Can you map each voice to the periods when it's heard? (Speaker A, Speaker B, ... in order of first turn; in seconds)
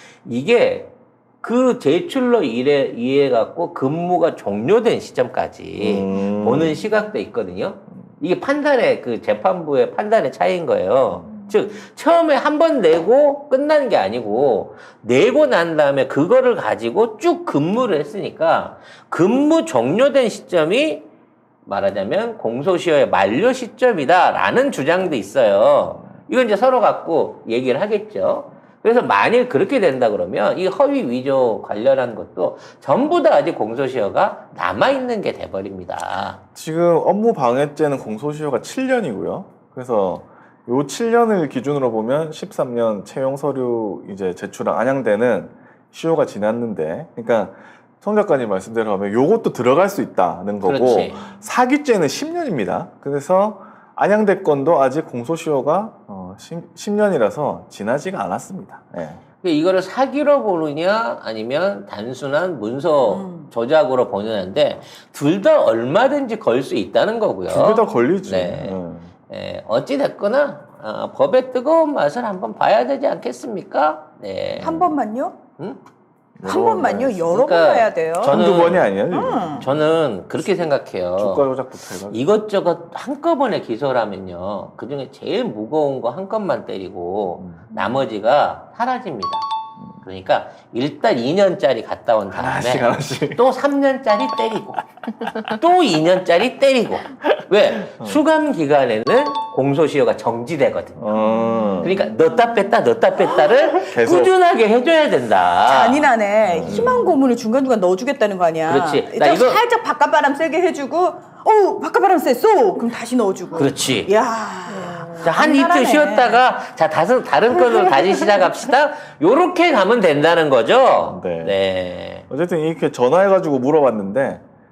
Speaker A: 0.2-21.1, 21.6-36.4, 50.6-51.3, 59.4-74.8, 77.2-78.9, 79.5-81.5, 82.1-89.5, 90.0-101.1, 101.8-107.0, 108.6-109.6, 113.5-114.1, 115.2-122.3
Speaker B: 5.8-6.8, 36.5-59.2, 67.5-69.1, 76.4-77.3, 78.3-79.8, 81.2-82.2, 87.4-87.9, 92.3-93.4, 97.9-98.2, 101.0-102.0, 103.9-104.3, 106.5-107.1, 121.1-121.5, 122.3-124.4
Speaker C: 63.0-63.5, 74.6-75.4, 76.4-79.6, 101.2-101.8, 105.7-116.4, 117.5-118.3